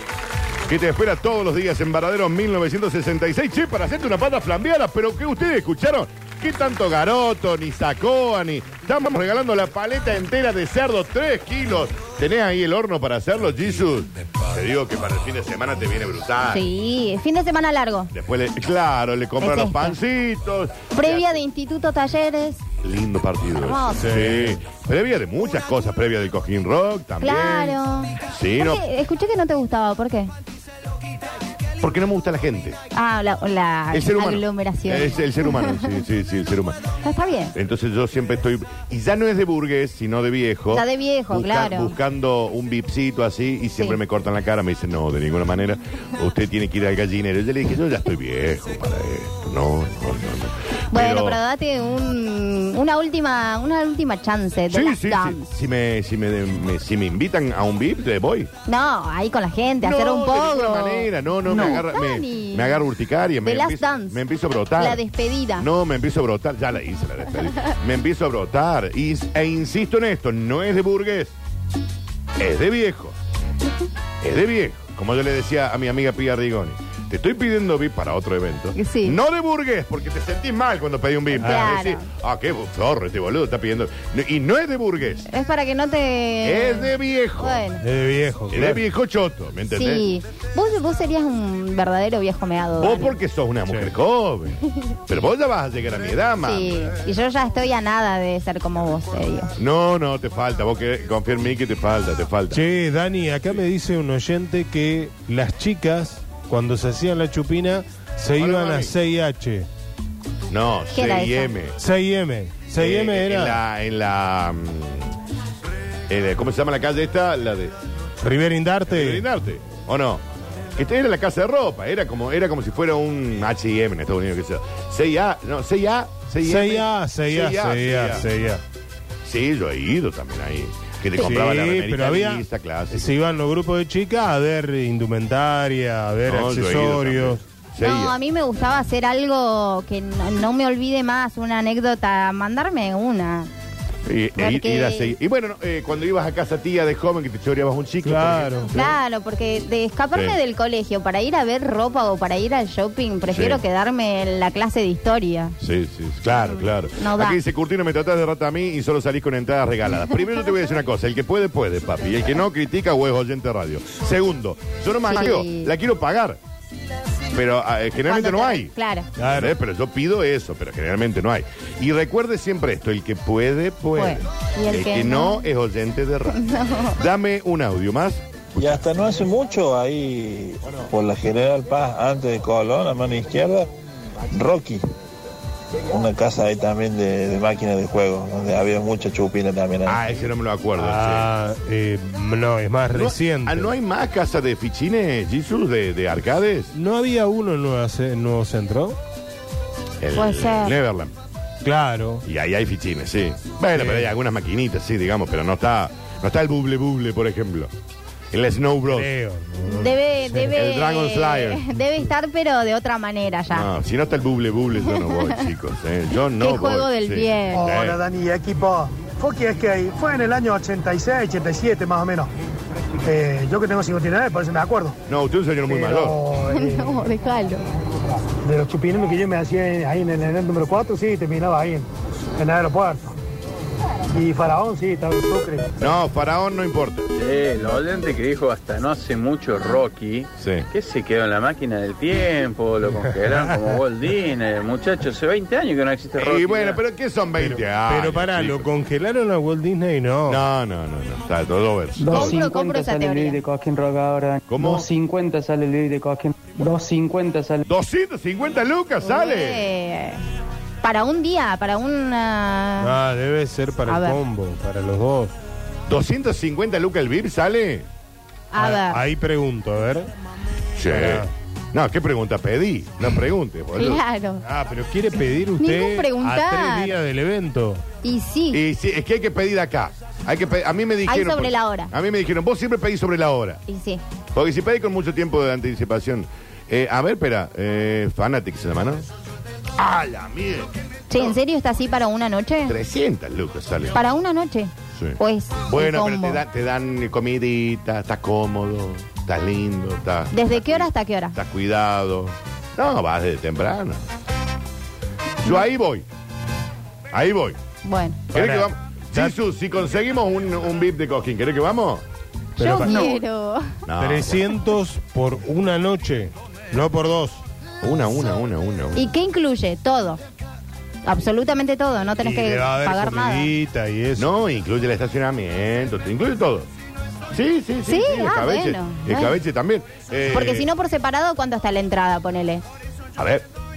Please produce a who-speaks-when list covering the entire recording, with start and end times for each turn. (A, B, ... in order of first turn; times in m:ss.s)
0:00.7-0:16.7 A
0:16.5-0:18.1 B
0:18.1-0:21.3 A
0:19.4-0:20.0 B
0:20.9-0:22.6 B
0:22.8-0:28.8 A
0:23.6-0:24.3 B
0:24.0-0:24.6 C
0:27.2-0:30.3 B
0:31.8-0:32.8 A
0:32.9-0:36.0 B
0:33.9-0:36.8 A
0:37.0-0:37.5 B
0:37.5-0:51.4 A
0:40.7-0:41.9 B
0:50.9-0:55.5 B
0:54.7-0:58.5 A
0:58.6-1:02.8 B
0:59.8-1:05.0 A
1:03.4-1:04.2 B
1:04.8-1:05.7 B
1:05.6-1:11.3 A
1:12.4-1:13.2 A
1:14.2-1:25.3 A
1:18.7-1:19.2 B
1:21.4-1:22.1 B
1:21.4-1:21.7 C
1:25.3-1:27.8 B
1:26.4-1:27.6 A
1:27.8-1:28.8 C
1:28.5-1:30.0 A
1:29.7-1:33.2 B
1:32.8-1:36.8 A
1:36.4-1:39.5 B
1:39.6-1:42.6 A
1:42.5-1:49.7 C
1:48.4-1:48.9 A
1:50.5-1:51.8 A
1:50.9-1:51.5 B
1:51.8-1:53.6 C
1:52.8-1:55.1 A
1:56.1-1:57.7 A
1:58.2-1:59.2 C
1:58.9-2:00.2 A
2:00.8-2:08.3 A
2:06.4-2:08.6 C
2:09.2-2:13.1 A
2:11.2-2:17.4 C
2:16.3-2:18.2 A
2:17.8-2:23.5 B
2:24.0-2:29.0 A
2:24.4-2:25.1 B
2:28.0-2:28.7 C
2:28.7-2:35.6 B
2:30.1-2:30.4 A
2:33.3-2:33.6 A
2:35.6-2:46.4 A
2:36.3-2:37.4 B
2:45.0-2:45.7 B
2:47.3-2:56.4 A
2:48.0-2:49.1 B
2:49.2-2:49.5 C
2:54.0-2:55.5 B
2:56.3-2:57.0 B
2:56.9-2:58.8 A
2:58.6-3:03.7 D
3:04.3-3:04.8 D
3:05.9-3:10.0 D
3:09.8-3:11.3 A
3:10.8-3:13.7 C
3:12.9-3:16.7 A
3:16.7-3:19.0 C
3:20.0-3:21.1 A
3:20.1-3:20.7 B
3:21.6-3:22.2 C
3:22.2-3:27.7 A
3:23.8-3:24.1 C
3:28.3-3:29.1 A
3:28.9-3:30.5 C
3:29.7-3:33.7 B
3:30.5-3:31.6 A
3:33.5-3:38.0 A
3:34.9-3:35.4 B
3:36.4-3:37.7 B
3:37.5-3:42.3 E
3:43.0-3:45.0 E
3:45.1-3:46.2 A
3:45.7-3:47.0 E
3:46.5-3:47.6 B
3:48.4-3:51.9 E
3:52.4-3:53.1 E
3:54.1-3:55.7 E
3:55.8-3:57.1 A
3:57.2-4:06.8 F
4:00.4-4:00.7 A
4:02.9-4:03.8 C
4:06.2-4:08.7 A
4:07.4-4:10.4 C
4:10.2-4:12.4 A
4:12.0-4:17.6 G
4:12.0-4:13.4 B
4:14.5-4:14.9 A
4:17.6-4:19.7 A
4:19.0-4:20.2 B
4:20.8-4:22.9 B
4:22.8-4:25.3 C
4:23.9-4:24.2 B
4:25.9-4:27.9 A
4:28.5-4:29.0 B
4:28.6-4:30.1 C
4:30.8-4:34.0 A
4:30.9-4:31.3 C
4:33.7-4:34.4 B
4:34.4-4:37.8 C
4:35.6-4:36.9 B
4:38.0-4:38.6 B
4:38.5-4:43.6 A
4:41.0-4:41.9 B
4:43.7-4:44.0 B
4:44.3-4:49.1 A
4:49.8-4:51.4 A
4:51.1-4:52.8 B
4:52.7-4:54.0 A
4:53.9-4:56.4 B
4:54.9-5:04.0 A
5:00.3-5:01.4 B
5:05.4-5:06.1 A
5:07.1-5:07.6 A
5:07.8-5:08.2 B
5:08.3-5:09.3 C
5:08.3-5:12.0 A
5:12.6-5:13.7 B
5:12.6-5:13.2 C
5:13.8-5:14.6 A
5:14.0-5:17.4 C
5:17.8-5:19.0 A
5:18.9-5:20.2 B
5:21.0-5:23.5 B
5:22.2-5:24.3 C
5:24.2-5:26.7 A
5:27.3-5:30.7 A
5:27.8-5:29.4 B
5:30.3-5:32.6 B
5:33.2-5:33.4 A